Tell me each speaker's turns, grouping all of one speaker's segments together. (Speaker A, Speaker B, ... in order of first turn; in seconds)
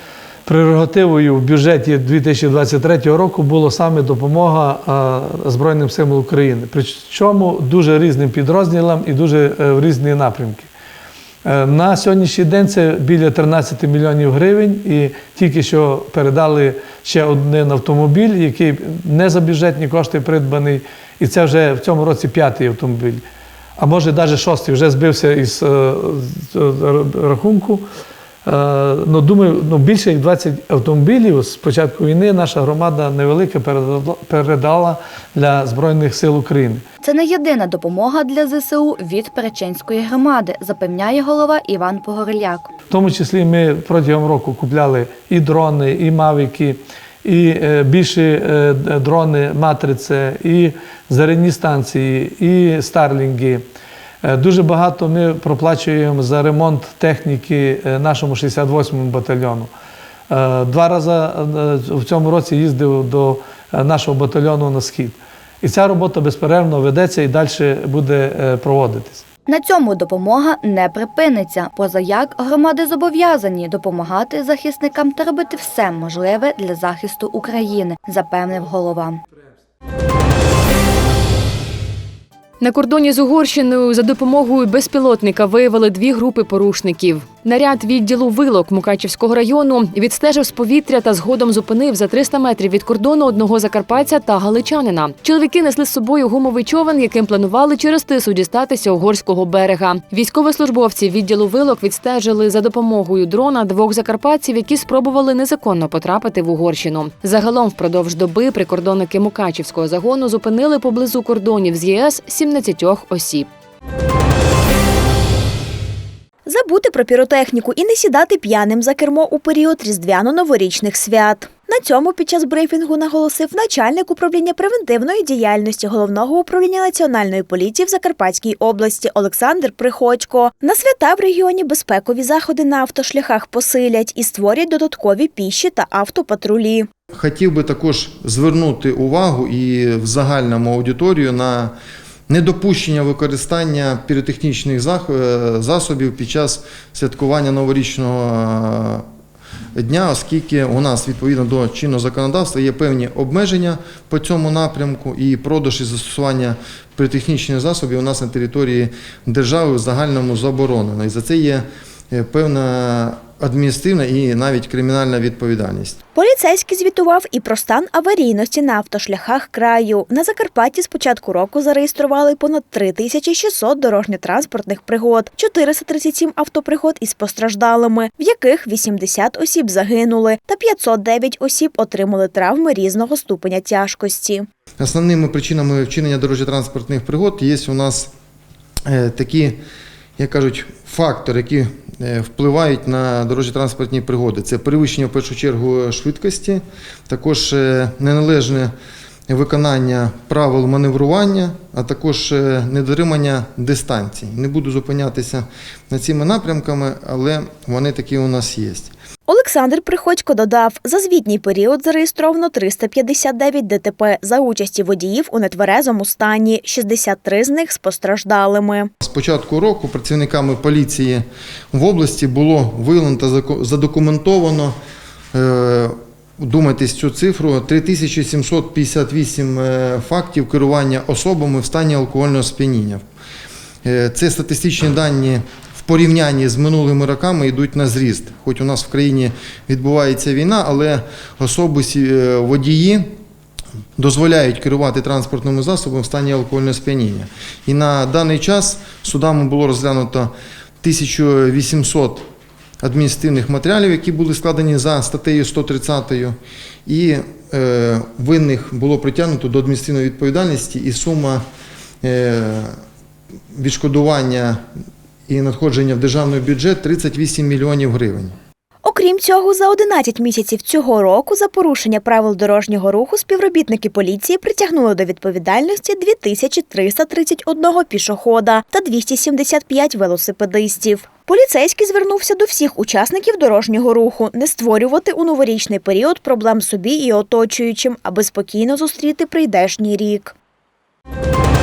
Speaker A: 0.5-10.7, 11.4-23.2, 23.8-27.9, 28.5-36.8, 42.9-53.6, 54.2-59.7, 60.3-69.2
Speaker B: 37.0-42.7, 69.5-79.2
Speaker C: 82.6-113.5
Speaker D: 116.5-136.9, 166.2-184.5, 209.3-218.9, 268.8-290.3
Speaker E: 137.1-141.7, 142.3-149.0, 149.8-166.0, 184.8-188.1, 188.9-189.6, 190.2-198.7, 199.3-208.9, 219.0-224.8, 225.3-233.0, 233.8-243.1, 244.0-252.2, 252.8-256.4, 256.9-261.4, 262.0-262.8, 263.5-264.6, 265.3-268.3